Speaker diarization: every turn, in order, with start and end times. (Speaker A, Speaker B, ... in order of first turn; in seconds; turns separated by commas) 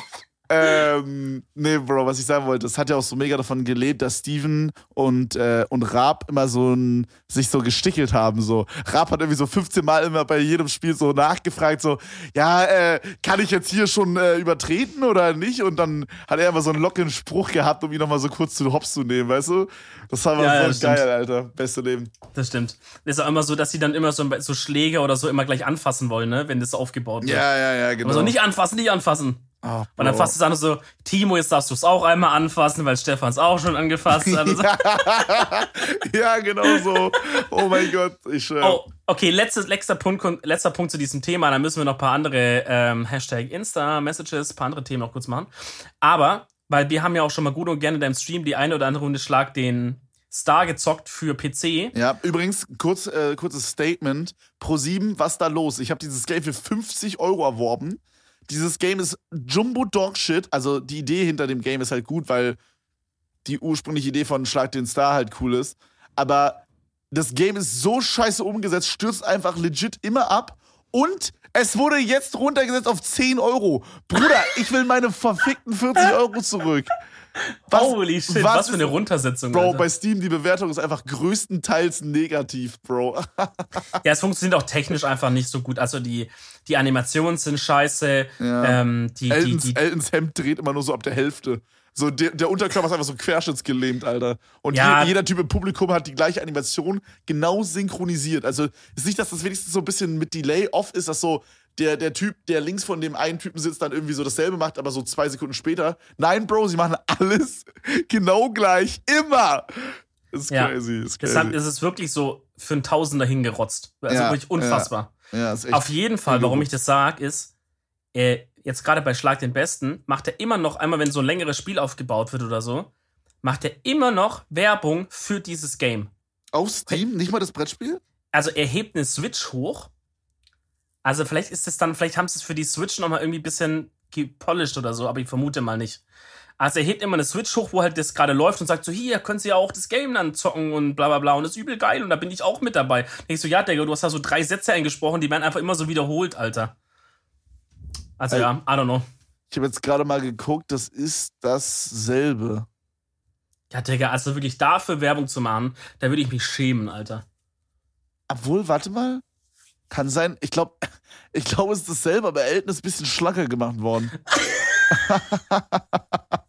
Speaker A: 0.5-22.1, Speaker B: 20.4-21.0, Speaker B: 22.3-27.4, Speaker A: 27.2-28.4, Speaker B: 28.0-29.4, Speaker A: 29.6-30.3, Speaker B: 30.0-34.8, Speaker A: 34.1-38.8, Speaker B: 36.7-37.0, Speaker B: 38.6-45.5, Speaker B: 46.0-51.9, Speaker A: 51.9-62.6, Speaker A: 63.4-77.0, Speaker B: 77.7-79.8, Speaker A: 77.7-78.9, Speaker A: 79.5-83.8, Speaker B: 84.0-89.8, Speaker A: 88.4-111.6, Speaker B: 94.7-95.1, Speaker B: 110.5-115.1, Speaker A: 114.1-116.7, Speaker B: 115.7-117.5, Speaker B: 118.1-122.9, Speaker B: 123.4-126.1, Speaker A: 126.5-128.0, Speaker B: 128.3-129.9, Speaker B: 131.0-136.0, Speaker B: 136.6-146.7, Speaker B: 148.2-149.1, Speaker A: 149.5-152.7, Speaker B: 153.7-157.2, Speaker A: 158.3-159.2, Speaker A: 159.9-164.2, Speaker A: 164.9-166.2